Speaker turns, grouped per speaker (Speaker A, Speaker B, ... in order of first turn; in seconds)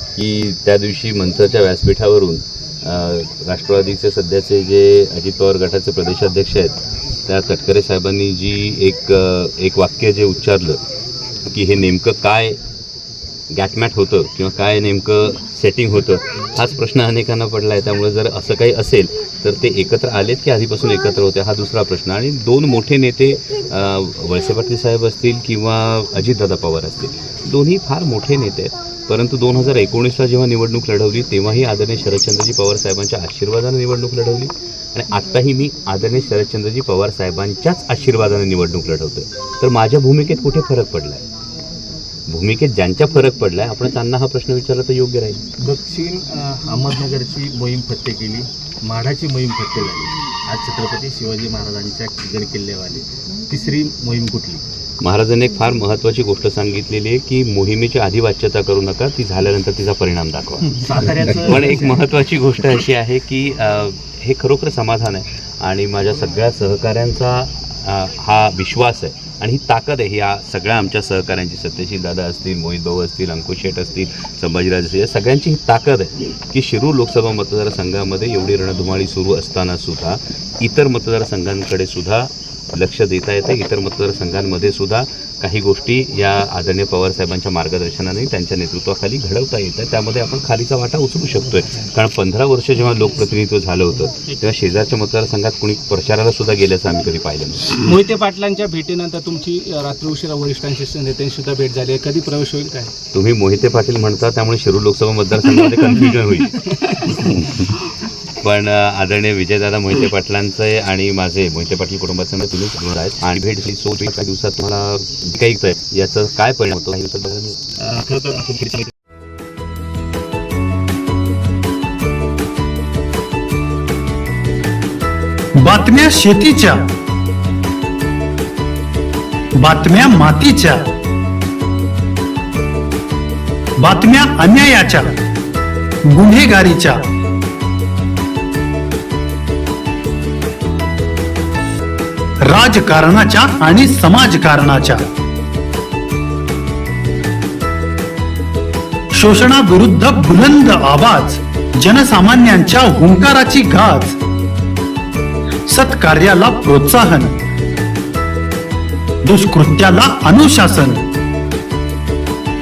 Speaker A: 0.1-10.8, 11.5-12.6, 13.5-41.2, 42.3-45.4, 55.0-60.8, 61.3-97.8, 103.1-107.7, 108.4-117.6
Speaker B: 45.6-54.6, 60.7-62.0, 117.8-118.9
Speaker C: 97.8-102.9
Speaker D: 125.6-126.8, 129.6-130.9, 133.8-135.2, 136.1-137.0, 142.5-145.0, 149.2-154.2, 155.7-157.3, 159.2-161.0